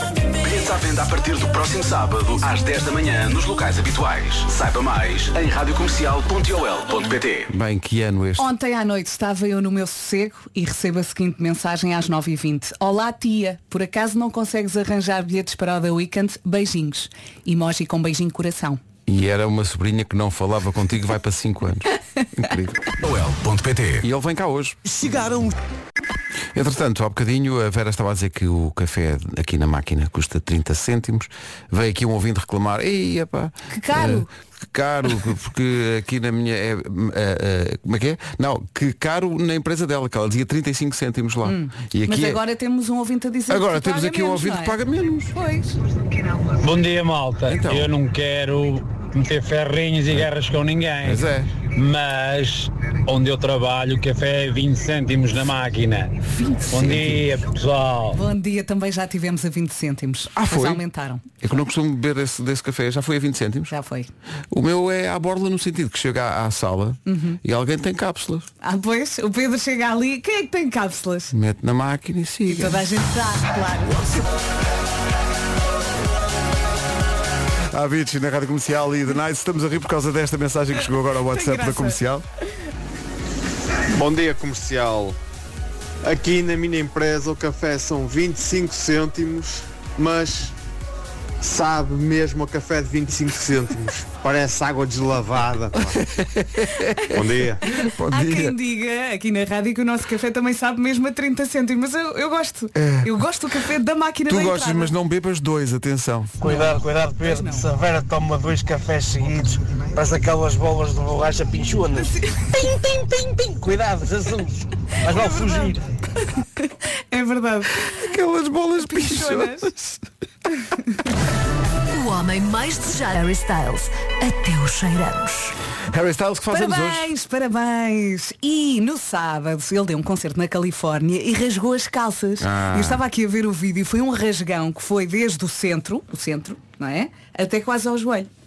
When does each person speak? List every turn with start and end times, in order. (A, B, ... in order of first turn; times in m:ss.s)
0:00.4-0:07.5 A
0:07.5-0:08.5 B
0:08.4-0:18.8 C
0:19.1-0:22.8 B
0:23.0-0:24.0 A
0:24.0-0:24.8 B
0:26.6-0:42.4 B
0:33.7-0:34.3 C
0:41.4-0:44.8 C
0:43.5-0:45.4 B
0:45.3-0:45.8 C
0:46.6-0:58.2 D
0:47.5-0:47.9 B
0:51.0-0:51.5 B
0:56.7-0:57.2 B
0:58.1-1:01.2 C
1:00.4-1:00.8 B
1:01.4-1:03.7 B
1:03.7-1:04.1 C
1:04.5-1:08.5 B
1:07.1-1:07.4 C
1:08.6-1:11.3 C
1:11.3-1:12.8 B
1:12.5-1:14.2 C
1:17.7-1:22.2 B
1:21.3-1:22.0 C
1:23.9-1:25.2 E
1:26.0-1:30.5 E
1:31.4-1:35.9 E
1:35.8-1:38.6 B
1:36.8-1:37.2 C
1:37.2-1:37.6 E
1:37.7-1:44.9 C
1:42.8-1:43.1 B
1:44.3-1:46.4 B
1:46.4-1:52.1 F
1:46.4-1:47.7 C
1:52.0-1:52.6 C
1:53.4-1:55.8 F
1:55.1-1:55.8 C
1:56.6-1:58.1 C
1:57.8-2:00.0 B
1:58.8-1:59.7 C
2:01.9-2:05.5 G
2:05.9-2:07.1 B
2:06.5-2:18.3 C
2:12.4-2:13.0 B